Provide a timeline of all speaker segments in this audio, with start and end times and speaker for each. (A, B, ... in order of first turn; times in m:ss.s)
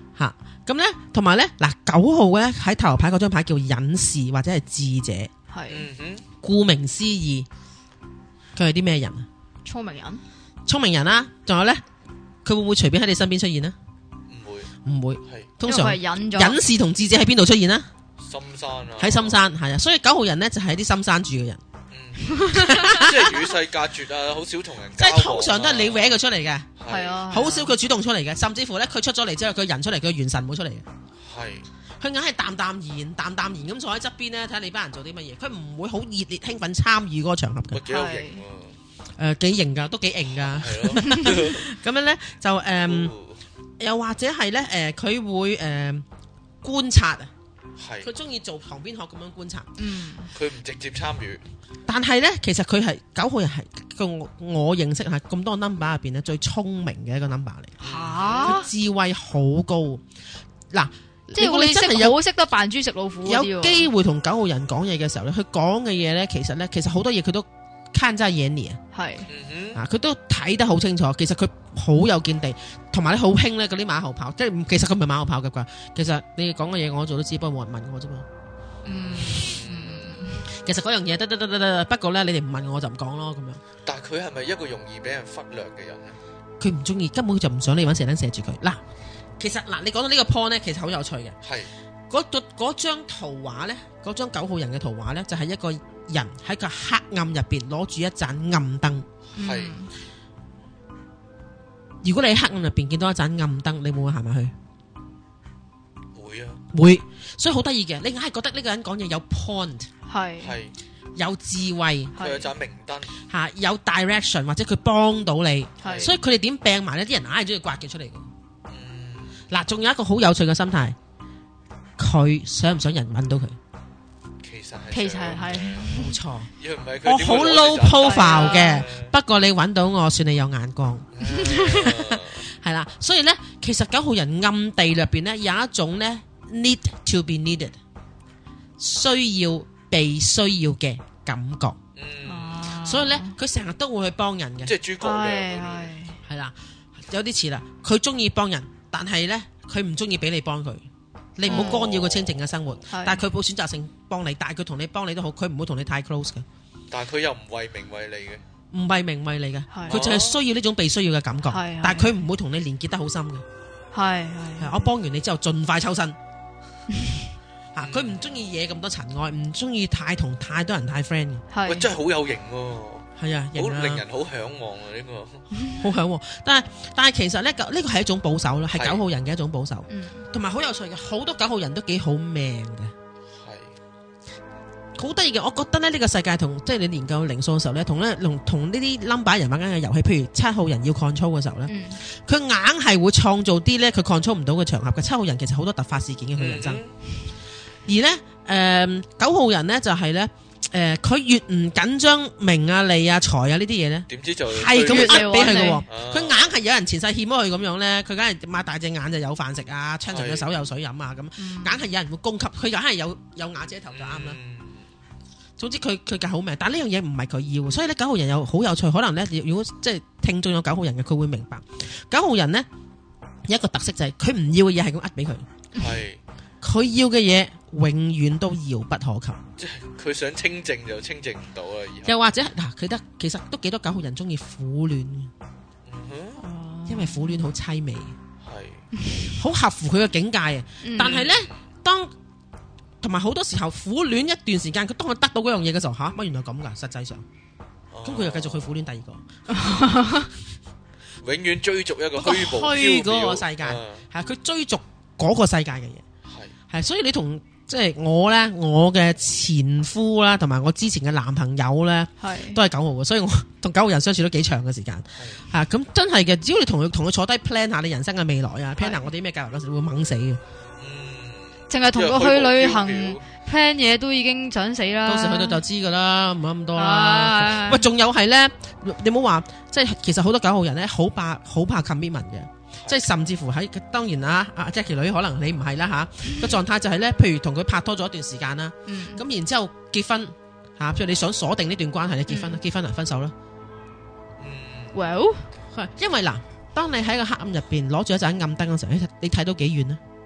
0:00.2-0:05.3 A
0:05.5-0:05.8 B
0:05.7-0:06.2 C
0:06.4-0:07.4 A
0:08.6-0:09.2 A
0:09.6-0:10.2 B
0:10.6-0:11.8 A
0:12.4-0:13.7 A
0:14.3-0:14.7 C
0:14.8-0:17.9 A
0:15.2-0:15.5 C
0:15.6-0:16.6 B
0:18.2-0:19.4 C
0:19.0-0:21.6 A
0:21.9-0:26.2 C
0:22.3-0:22.9 B
0:22.5-0:23.5 A
0:25.0-0:26.7 A
0:26.8-0:27.2 C
0:26.9-0:27.7 B
0:27.3-0:30.8 A
0:31.2-0:31.7 C
0:32.0-0:37.8 A
0:37.7-0:38.8 C
0:37.9-0:38.4 B
0:39.2-0:43.1 A
0:40.3-0:41.6 C
0:41.0-0:41.3 B
0:42.8-0:43.4 C
0:43.8-0:46.0 A
0:46.6-0:47.3 A
0:47.8-0:48.1 C
0:48.0-0:49.7 A
0:49.8-0:50.3 B
0:50.3-0:51.4 C
0:51.9-0:57.7 A
0:57.8-0:58.6 C
0:57.8-0:58.7 B
0:58.4-1:00.0 A
1:00.7-1:02.2 A
1:01.3-1:03.9 B
1:03.2-1:08.8 A
1:08.9-1:09.3 B
1:09.3-1:09.8 C
1:09.7-1:18.2 A
1:18.8-1:20.5 B
1:18.8-1:20.2 C
1:20.5-1:23.6 A
1:23.8-1:26.2 C
1:26.6-1:28.8 A
1:29.4-1:31.4 A
1:31.4-1:31.7 C
1:32.1-1:39.0 A
1:39.4-1:39.9 B
1:39.4-1:39.7 C
1:42.0-1:44.5 A
1:46.1-1:46.6 C
1:46.7-1:49.9 A
1:50.1-1:50.5 B
1:50.4-1:50.7 C
1:51.2-1:52.1 A
1:52.2-1:52.5 B
1:52.2-1:53.1 C
1:53.3-1:58.3 A
1:55.8-1:56.1 B
1:55.8-1:56.2 C
1:58.7-1:59.4 C
1:59.5-2:01.0 A
2:02.0-2:03.6 A
2:04.4-2:09.1 C
2:04.9-2:06.1 B
2:05.9-2:06.5 A
2:07.0-2:17.8 A
2:08.0-2:08.8 B
2:11.1-2:12.4 C
2:11.2-2:11.6 B
2:18.8-2:21.8 A
2:22.0-2:22.7 C
2:22.2-2:23.3 B
2:22.8-2:24.7 A
2:24.6-2:25.9 C
2:25.0-2:26.2 B
2:26.2-2:30.8 A
2:31.4-2:36.4 A
2:31.4-2:32.5 C
2:31.5-2:31.8 B
2:32.9-2:33.2 B
2:36.9-2:38.4 C
2:38.7-2:43.4 A
2:39.7-2:40.0 B
2:39.9-2:40.4 C
2:41.5-2:42.1 B
2:43.9-2:44.8 B
2:44.6-2:46.2 A
2:47.7-2:51.4 A
2:47.8-2:48.2 C
2:51.5-2:51.9 B
2:51.6-2:55.4 C
2:53.2-2:54.0 A
2:55.8-3:02.9 A
2:58.7-2:59.0 C
2:59.9-3:00.3 B
3:03.3-3:03.7 C
3:05.0-3:16.8 A
3:11.7-3:12.0 B
3:16.3-3:16.9 C
3:17.8-3:34.4 A
3:24.1-3:26.4 C
3:24.7-3:25.8 B
3:30.1-3:30.5 C
3:31.4-3:31.8 B
3:33.9-3:34.8 C
3:35.6-3:42.7 A
3:43.4-3:45.4 A
3:45.8-3:46.2 C
3:46.6-3:49.4 A
3:49.6-3:52.2 C
3:52.0-3:55.3 A
3:55.8-3:56.4 C
3:56.4-3:57.4 B
3:56.9-3:58.1 A
3:58.4-3:58.8 C
3:59.0-3:59.3 B
3:59.4-4:02.1 A
4:00.8-4:01.3 B
4:01.0-4:01.5 C
4:03.0-4:07.2 A
4:07.9-4:08.8 C
4:08.0-4:09.2 A
4:09.5-4:10.3 B
4:11.2-4:14.0 C
4:12.2-4:16.0 A
4:16.3-4:16.5 C
4:16.7-4:30.4 A
4:22.2-4:22.6 B
4:25.2-4:25.4 C
4:28.8-4:29.1 B
4:30.8-4:33.2 C
4:31.7-4:35.6 B
4:35.0-4:53.3 A
4:36.7-4:37.8 B
4:42.8-4:43.1 C
4:48.8-4:49.2 B
4:52.3-4:52.6 B
4:54.4-4:55.0 C
4:54.9-4:55.5 B
4:55.7-5:00.0 A